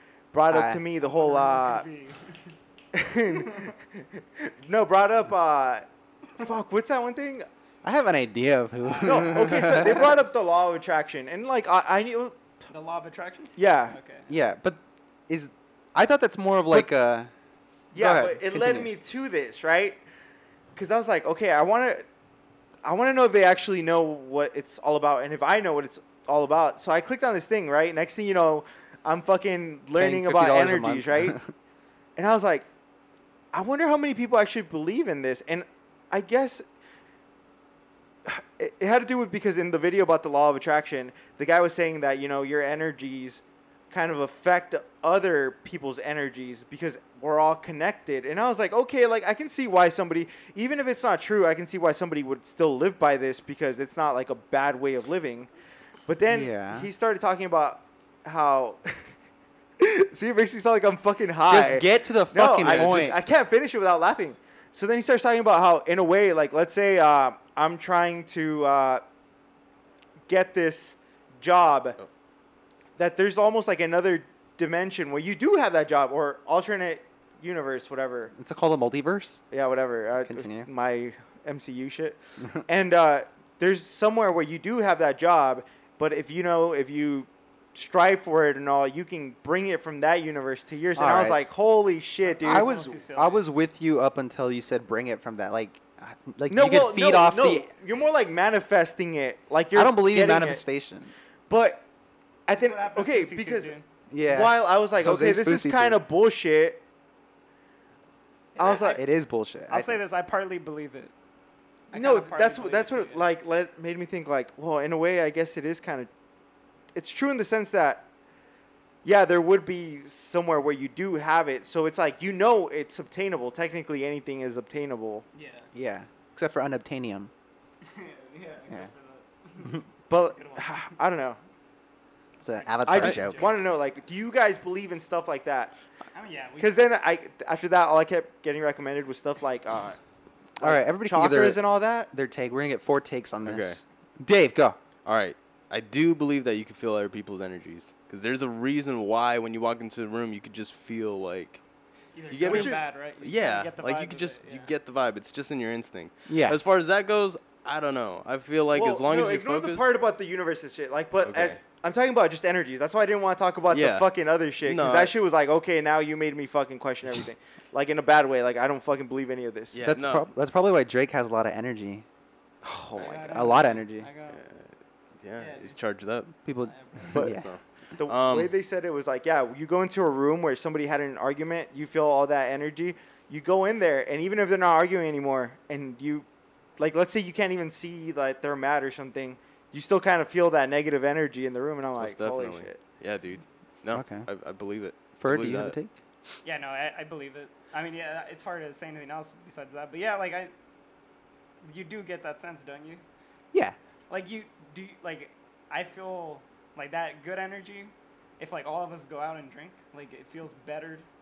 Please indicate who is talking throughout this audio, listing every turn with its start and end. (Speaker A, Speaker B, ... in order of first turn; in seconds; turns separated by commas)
Speaker A: 0.3-1.9, Speaker B: 0.5-0.8, Speaker C: 1.0-2.5, Speaker A: 2.9-5.9, Speaker A: 6.4-7.5, Speaker B: 7.8-10.2, Speaker C: 8.8-9.8, Speaker A: 9.0-12.4, Speaker C: 12.7-14.3, Speaker A: 13.6-14.0, Speaker B: 14.3-17.3, Speaker A: 17.9-20.0, Speaker B: 17.9-18.9, Speaker A: 20.8-22.1, Speaker A: 22.8-31.4, Speaker B: 29.9-31.5, Speaker A: 32.2-32.7, Speaker A: 33.5-36.6, Speaker A: 38.2-55.5, Speaker A: 56.1-59.1, Speaker B: 56.3-56.9, Speaker A: 59.8-69.0, Speaker B: 61.5-63.2, Speaker D: 62.6-63.1, Speaker A: 70.3-72.0, Speaker A: 73.0-78.3, Speaker B: 78.3-79.4, Speaker A: 79.5-92.7, Speaker B: 80.3-80.7, Speaker B: 91.0-91.4, Speaker C: 92.2-93.5, Speaker B: 92.4-97.7, Speaker A: 96.5-100.6, Speaker B: 99.7-101.1, Speaker A: 101.5-101.8, Speaker A: 102.5-106.8, Speaker C: 102.5-103.8, Speaker B: 104.1-106.0, Speaker A: 108.6-109.0, Speaker C: 108.6-109.0, Speaker B: 108.7-110.0, Speaker C: 109.7-111.1, Speaker C: 111.9-113.3, Speaker A: 111.9-116.1, Speaker A: 117.0-118.1, Speaker A: 119.0-125.2, Speaker C: 125.3-125.7, Speaker B: 125.7-127.3, Speaker C: 127.8-130.9, Speaker A: 130.1-131.4, Speaker B: 132.4-133.5, Speaker C: 132.6-133.6, Speaker A: 132.9-135.7, Speaker C: 136.2-136.8, Speaker A: 136.6-140.0, Speaker B: 140.6-144.8, Speaker A: 140.6-142.1, Speaker D: 143.5-143.8, Speaker D: 145.1-151.6, Speaker C: 152.2-154.7, Speaker D: 152.3-159.9, Speaker A: 152.4-152.8, Speaker B: 156.3-156.6, Speaker A: 158.7-169.8, Speaker D: 161.2-161.6, Speaker D: 163.7-164.1, Speaker D: 164.6-165.1, Speaker D: 169.7-170.3, Speaker B: 169.8-172.1, Speaker A: 172.6-173.7, Speaker C: 173.0-174.4, Speaker B: 173.3-174.1, Speaker D: 174.3-176.3, Speaker C: 175.4-175.8, Speaker B: 176.4-177.5, Speaker C: 176.6-177.2, Speaker D: 177.1-178.6, Speaker A: 177.1-177.4, Speaker A: 178.0-186.3, Speaker A: 186.8-192.8, Speaker D: 192.0-195.8, Speaker B: 193.9-194.3, Speaker B: 195.2-195.9, Speaker C: 196.4-200.5, Speaker C: 201.6-203.0, Speaker C: 204.1-211.1